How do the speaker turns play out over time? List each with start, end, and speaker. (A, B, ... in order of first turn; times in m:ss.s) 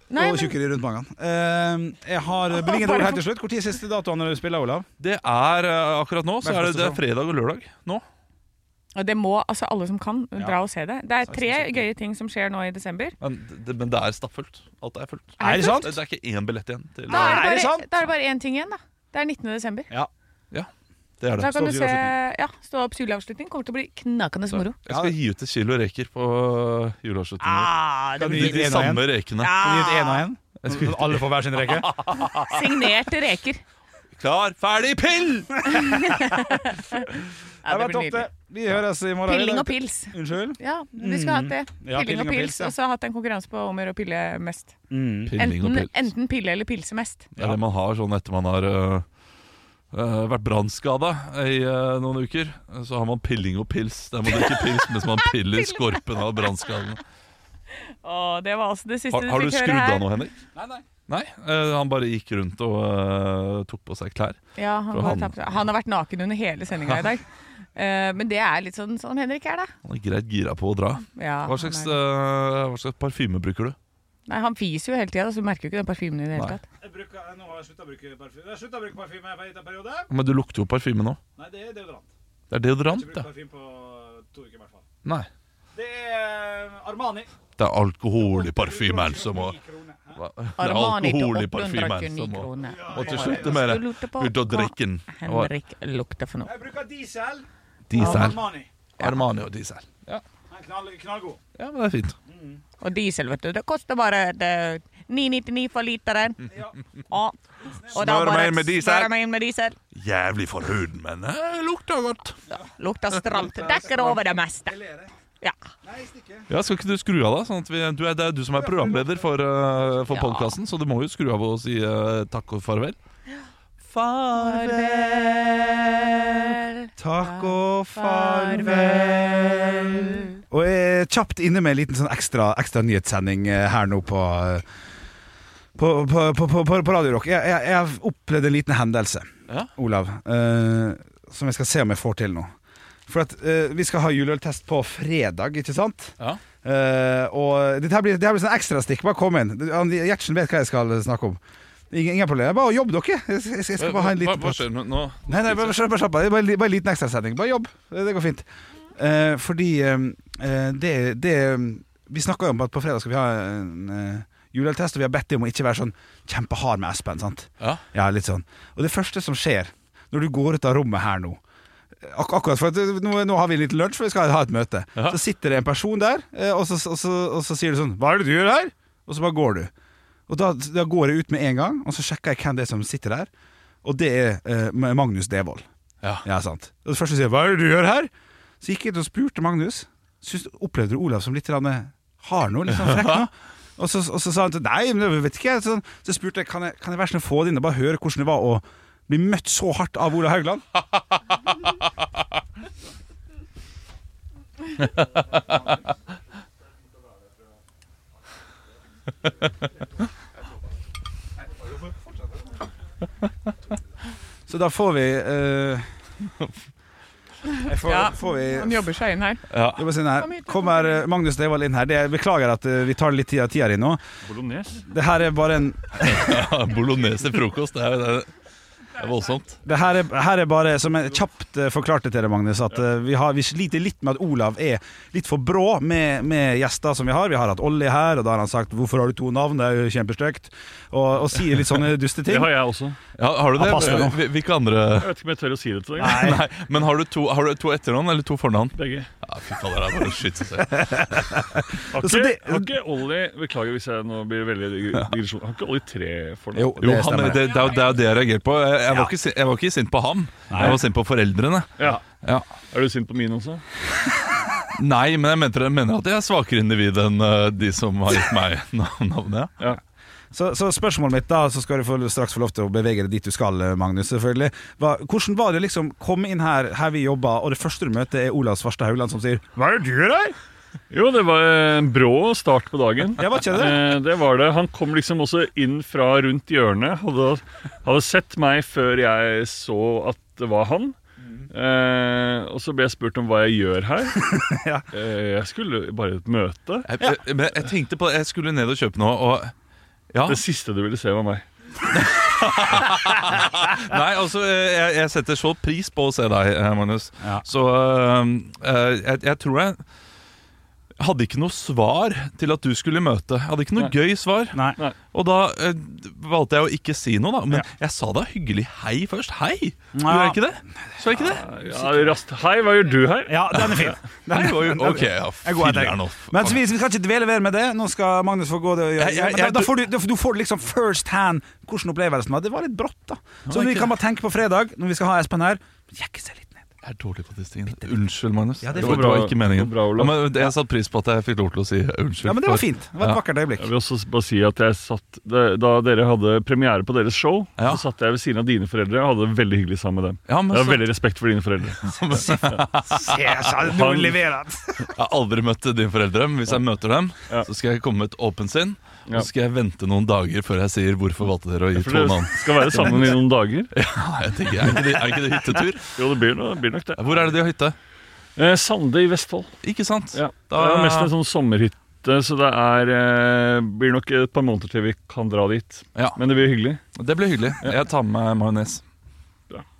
0:00.1-0:00.5 A
0:00.2-0:04.8 B
0:02.6-0:03.2 A
0:05.0-0:08.0 C
0:06.4-0:07.0 B
0:08.9-0:13.2 A
0:11.3-0:11.8 C
0:13.2-0:17.5 C
0:15.4-0:15.8 A
0:15.4-0:15.9 B
0:17.1-0:17.9 B
0:17.1-0:19.9 A
0:21.2-0:21.9 C
0:21.4-0:24.8 A
0:24.8-0:27.7 C
0:24.9-0:25.1 B
0:27.4-0:30.2 A
0:28.2-0:32.3 B
0:28.2-0:29.6 C
0:30.6-0:32.4 C
0:32.2-0:33.6 A
0:34.2-0:36.0 C
0:35.6-0:37.1 A
0:37.6-0:38.3 A
0:37.6-0:42.7 B
0:39.3-0:44.7 A
0:44.9-0:45.3 B
0:45.3-0:46.1 C
0:45.4-0:47.3 A
0:47.4-0:49.0 C
0:49.9-0:57.0 C
0:54.3-0:56.6 A
0:58.0-1:00.0 A
0:59.1-1:00.4 C
1:00.5-1:00.8 B
1:01.1-1:05.5 C
1:04.6-1:09.7 A
1:09.8-1:13.8 C
1:11.2-1:12.0 A
1:14.3-1:16.6 A
1:16.8-1:20.1 B
1:20.1-1:21.2 C
1:21.4-1:22.1 B
1:22.5-1:23.2 C
1:22.9-1:24.8 B
1:25.7-1:27.3 B
1:27.6-1:29.6 C
1:28.2-1:30.2 B
1:30.2-1:35.5 C
1:30.6-1:36.5 A
1:32.6-1:33.7 B
1:36.4-1:38.7 B
1:37.9-1:38.4 C
1:38.0-1:38.3 A
1:39.0-1:40.2 C
1:40.5-1:41.4 B
1:41.6-1:42.2 C
1:42.3-1:42.6 B
1:42.8-1:46.5 A
1:46.5-1:46.7 B
1:47.1-1:47.4 A
1:47.6-1:48.3 B
1:47.9-1:49.8 A
1:47.9-1:49.1 C
1:49.9-1:52.3 C
1:52.8-1:54.8 A
1:53.4-1:55.1 B
1:55.8-1:56.5 B
1:56.5-2:03.0 C
1:58.6-1:59.4 B
2:00.1-2:00.5 A
2:03.8-2:05.4 C
2:04.3-2:10.4 A
2:07.0-2:14.6 B
2:15.7-2:22.5 B
2:23.1-2:31.4 B
2:31.9-2:34.6 B
2:33.8-2:35.8 C
2:35.2-2:51.4 B
2:52.0-2:59.7 B
3:00.3-3:03.3 B
3:03.8-3:05.6 B
3:06.2-3:08.1 B
3:08.6-3:20.6 B
3:34.5-3:35.9 B
3:37.6-3:38.8 B
3:37.8-3:39.4 A
3:39.5-3:39.9 C
3:39.7-3:44.0 B
3:40.2-3:40.7 A
3:44.2-3:44.8 D
3:44.8-3:46.4 B
3:46.0-3:48.3 C
3:48.9-3:49.6 C
3:49.6-4:02.5 B
4:02.2-4:03.0 D
4:03.2-4:05.2 C
4:03.6-4:04.2 B
4:03.7-4:04.1 D
4:05.0-4:06.3 D
4:06.0-4:06.4 B
4:06.0-4:11.2 C
4:08.7-4:09.1 D
4:10.7-4:12.6 B
4:11.9-4:16.8 D
4:16.5-4:17.8 B
4:16.8-4:22.5 C
4:20.5-4:20.8 B
4:22.7-4:23.6 D
4:24.7-4:29.6 C
4:30.3-4:40.4 B
4:40.9-4:51.0 D
4:43.2-4:43.8 B
4:51.5-4:54.2 D
4:54.2-4:54.8 B
4:54.9-4:56.9 D
4:56.8-4:59.5 C
5:00.1-5:00.4 C
5:00.3-5:01.4 D
5:01.9-5:09.8 C
5:11.0-5:21.4 C
5:14.5-5:14.8 B
5:19.9-5:20.4 B
5:21.2-5:24.0 D
5:23.2-5:36.7 B
5:24.3-5:26.6 C
5:29.0-5:29.7 C
5:33.5-5:33.9 C
5:36.8-5:43.2 C
5:38.6-5:39.2 B
5:38.8-5:40.4 D
5:42.2-5:43.7 B
5:43.6-5:52.6 D
5:47.6-5:47.8 C
5:50.3-5:50.9 C
5:51.8-5:53.5 C
5:52.8-5:54.9 B
5:53.7-5:54.1 D
5:54.9-6:03.2 C
6:01.8-6:03.7 D
6:03.7-6:05.9 C
6:06.0-6:07.3 D
6:07.0-6:07.8 C
6:08.4-6:09.5 D
6:09.6-6:11.1 C
6:10.1-6:16.8 D
6:16.9-6:18.8 C